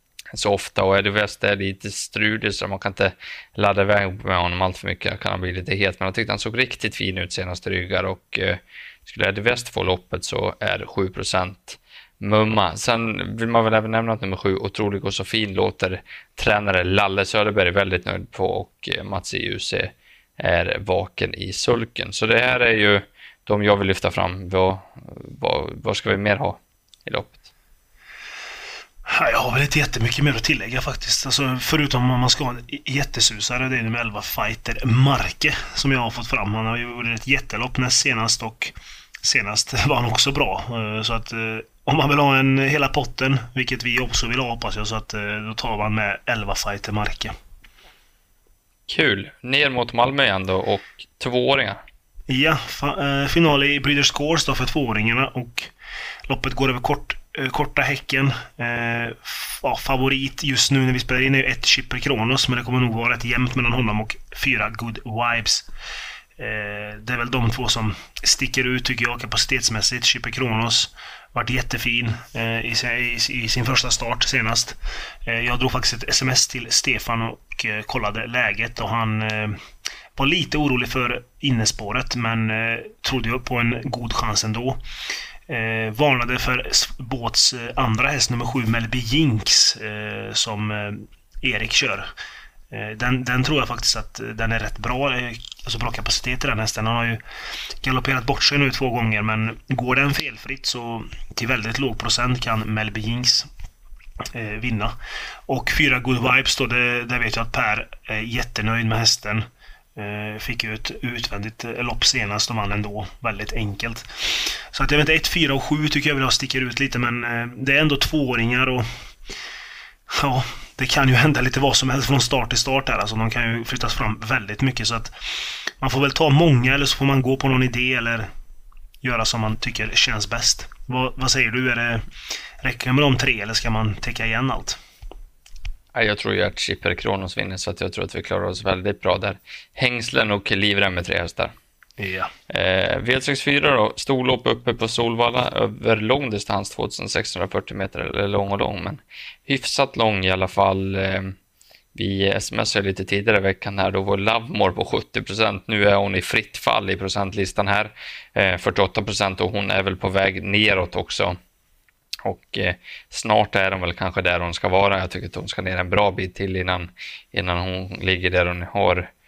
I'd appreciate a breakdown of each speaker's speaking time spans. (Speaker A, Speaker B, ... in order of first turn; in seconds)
Speaker A: 0.3-27.4, 48.9-51.8, 135.9-141.5, 142.5-151.3, 151.9-161.4, 162.2-169.1
Speaker B: 29.1-47.3, 52.3-55.7, 56.3-65.7, 66.4-79.6, 80.2-84.8, 85.5-92.1, 92.7-97.2, 97.8-103.5, 104.3-104.9, 105.5-118.8, 120.1-128.3, 129.0-132.1, 132.6-134.8, 142.0-142.3